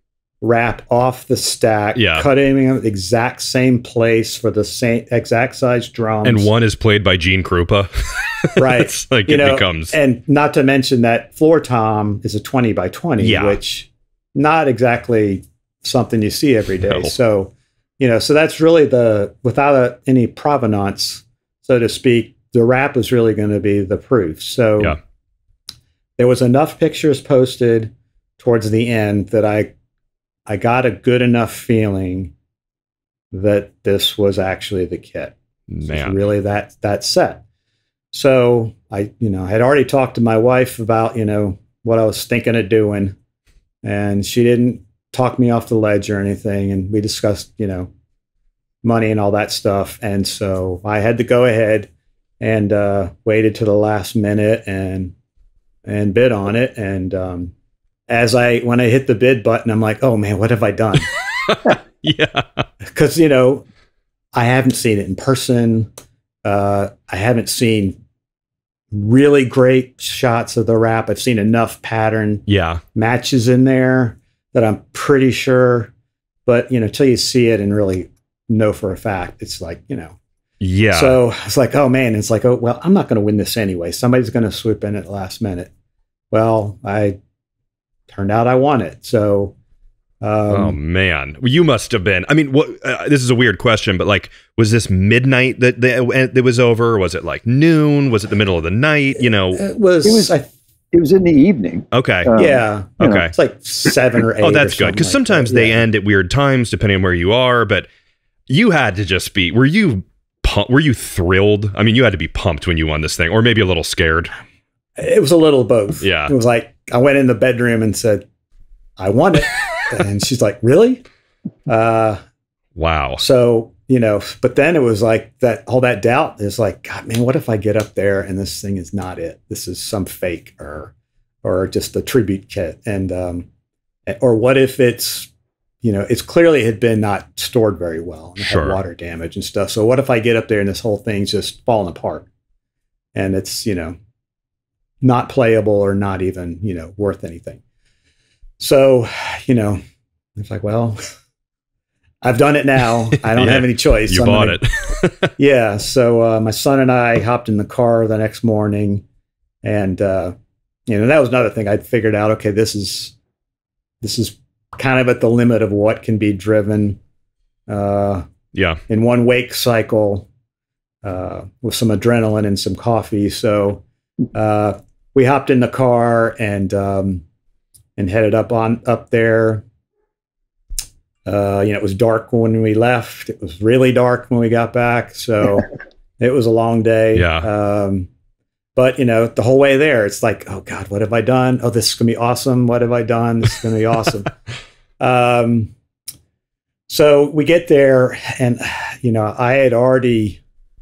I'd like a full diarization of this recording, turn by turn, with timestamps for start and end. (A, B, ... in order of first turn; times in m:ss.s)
0:00.4-0:06.5 A
0:01.9-0:02.3 B
0:06.2-0:10.0 B
0:08.6-0:25.0 A
0:13.2-0:13.6 B
0:16.8-0:17.1 B
0:26.2-0:29.7 A
0:30.5-0:32.3 A
0:33.3-0:37.4 A
0:35.7-0:36.2 B
0:38.1-0:43.2 A
0:43.8-0:47.9 A
0:48.8-0:51.9 A
0:52.4-0:55.1 A
0:55.8-0:57.5 A
0:58.1-1:01.1 A
1:01.5-1:02.6 B
1:02.8-1:03.6 A
1:04.3-1:05.9 A
1:06.4-1:08.0 A
1:08.9-1:15.9 A
1:12.5-1:12.8 B
1:16.4-1:20.2 A
1:20.6-1:21.2 B
1:20.9-1:25.7 A
1:26.3-1:27.2 A
1:28.1-1:29.5 A
1:30.2-1:30.8 A
1:30.5-1:39.6 B
1:39.6-1:40.5 A
1:40.0-1:40.3 C
1:40.9-1:43.2 C
1:41.9-1:42.3 B
1:42.3-1:45.8 A
1:43.0-1:43.3 B
1:44.4-1:47.9 B
1:48.5-1:54.3 B
1:55.0-1:58.2 A
1:56.0-1:56.3 B
1:59.0-2:01.0 A
2:01.7-2:02.2 A
2:02.8-2:03.2 B
2:03.2-2:13.5 A
2:14.1-2:15.3 A
2:15.8-2:22.3 A
2:18.4-2:18.8 B
2:23.1-2:24.0 A
2:25.0-2:27.6 A
2:28.6-2:29.8 A
2:30.4-2:31.0 A
2:32.2-2:34.6 A
2:33.3-2:35.3 B
2:35.4-2:39.0 A
2:39.6-2:40.3 A
2:40.9-2:43.1 A
2:44.0-2:47.0 A
2:47.7-2:48.2 A
2:48.5-2:48.8 B
2:48.9-2:50.3 A
2:51.0-2:53.8 A
2:54.3-2:57.2 A
2:58.0-2:59.6 A
3:01.2-3:05.6 A
3:06.2-3:08.1 A
3:07.1-3:07.5 B
3:08.8-3:14.3 A
3:15.0-3:15.7 A
3:16.9-3:20.4 A